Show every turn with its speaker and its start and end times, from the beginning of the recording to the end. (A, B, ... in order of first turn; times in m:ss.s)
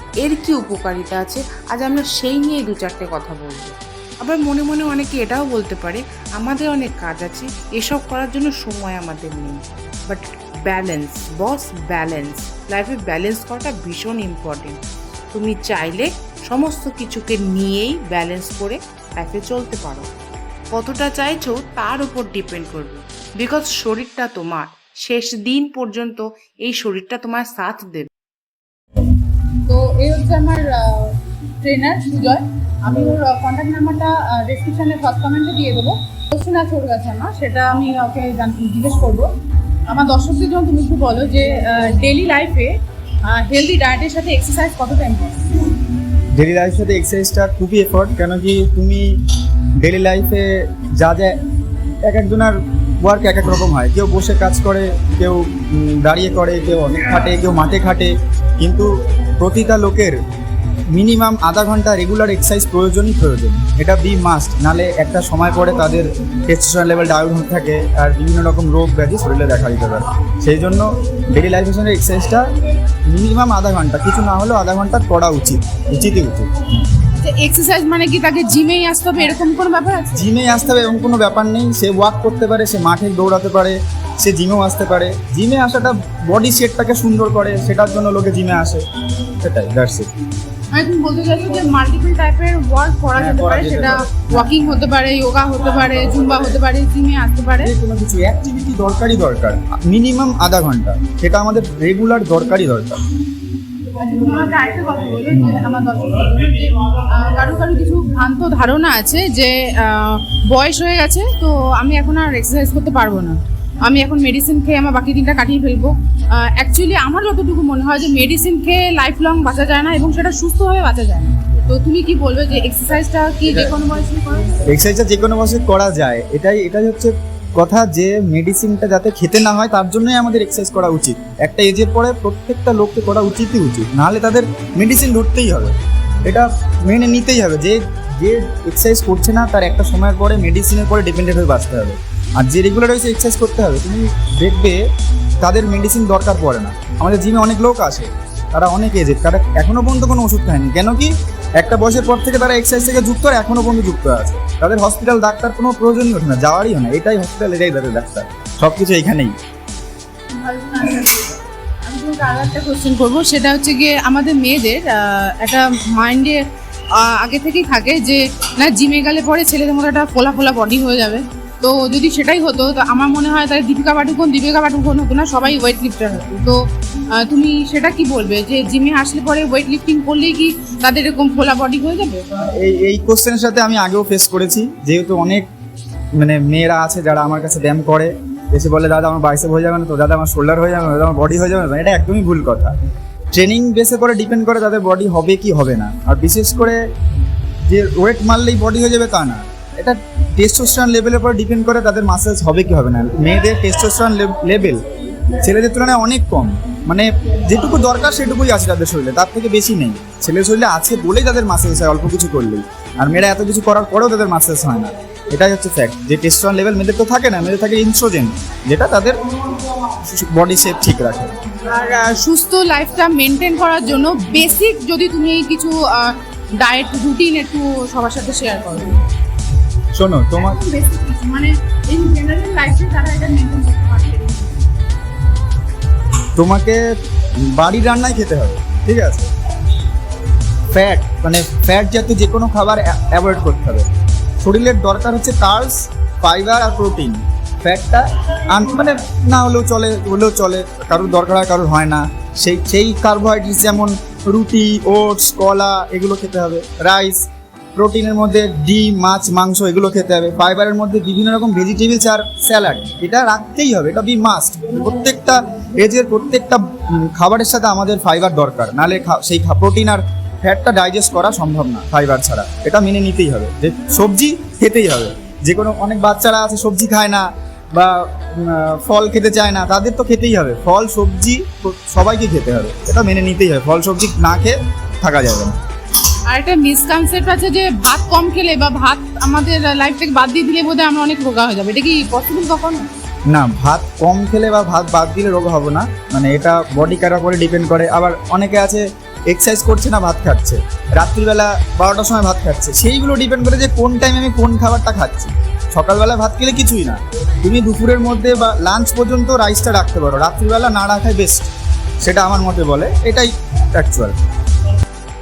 0:00.2-0:14.8 A
0:15.3-0:20.1 A
0:20.7-0:28.1 A
0:29.7-0:39.3 B
0:39.9-0:45.7 B
0:46.3-0:49.1 C
0:49.8-0:51.4 C
0:52.0-1:00.2 C
1:00.9-1:12.4 C
1:13.1-1:16.5 C
1:17.0-1:20.3 B
1:20.2-1:30.1 C
1:30.7-1:37.7 B
1:33.2-1:34.6 C
1:37.6-1:43.0 C
1:43.8-2:04.6 B
1:45.3-1:45.6 C
2:04.7-2:15.7 C
2:16.2-2:24.8 C
2:25.4-2:39.3 C
2:40.4-2:46.4 B
2:47.0-2:56.6 B
2:57.2-3:02.2 B
3:02.6-3:05.5 C
3:06.2-3:12.7 C
3:13.3-3:16.8 C
3:17.7-3:24.8 C
3:25.4-3:39.2 C
3:39.9-3:41.3 C
3:41.7-3:49.0 B
3:50.0-3:50.6 C
3:50.4-3:54.5 B
3:56.4-3:56.8 C
3:57.5-3:59.3 C
4:00.7-4:03.9 C
4:04.4-4:45.6 C
4:46.3-4:52.8 B
4:53.3-5:11.5 C
5:12.0-5:14.1 C